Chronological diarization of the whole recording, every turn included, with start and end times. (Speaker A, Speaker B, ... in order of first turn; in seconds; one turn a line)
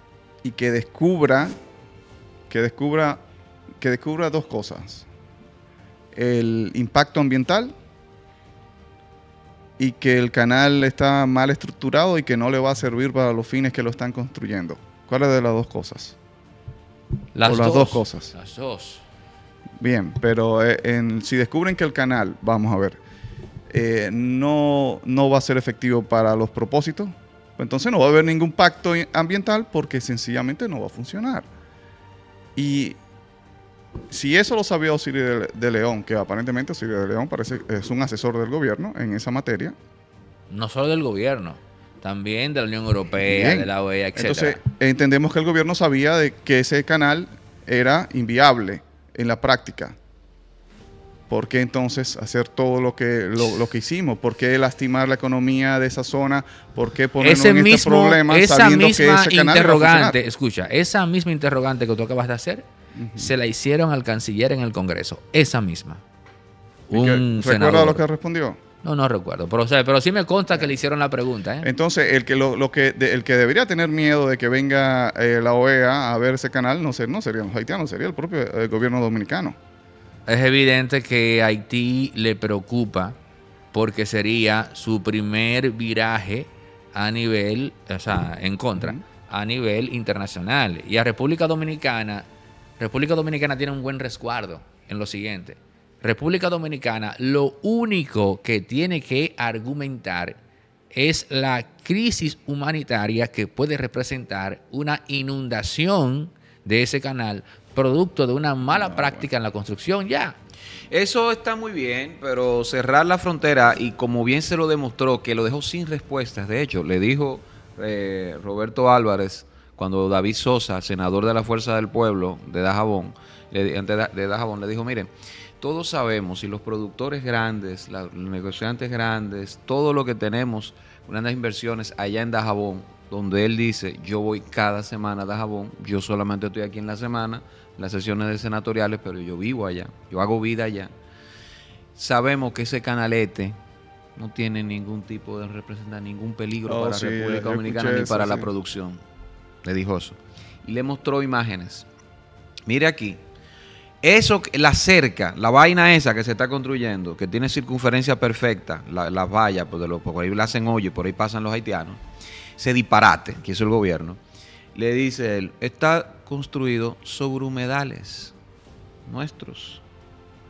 Speaker A: 0.4-1.5
Speaker A: 2.5-3.2
Speaker A: 3.8-5.0
Speaker A: 6.1-7.7
Speaker A: 9.8-16.1
Speaker B: 17.3-19.0
Speaker A: 17.4-18.3
Speaker A: 19.8-23.0
Speaker A: 23.7-31.5
Speaker A: 32.5-33.0
Speaker A: 34.1-39.8
Speaker B: 40.5-44.6
Speaker A: 43.2-50.0
Speaker A: 51.3-60.2
Speaker B: 57.2-62.6
Speaker A: 62.9-63.3
Speaker B: 63.1-66.0
Speaker B: 66.9-68.0
Speaker A: 66.9-68.6
Speaker B: 68.8-71.7
Speaker A: 71.6-79.6
Speaker B: 80.3-83.2
Speaker B: 83.7-92.2
Speaker B: 92.8-100.4
Speaker B: 100.9-110.3
Speaker A: 108.7-109.2
Speaker C: 110.9-140.9
Speaker C: 141.9-143.5
Speaker C: 144.2-149.0
Speaker A: 146.6-148.5
Speaker C: 149.6-151.8
Speaker C: 152.7-153.2
Speaker C: 154.0-162.0
Speaker C: 162.6-164.2
Speaker C: 164.7-168.3
Speaker C: 169.1-169.8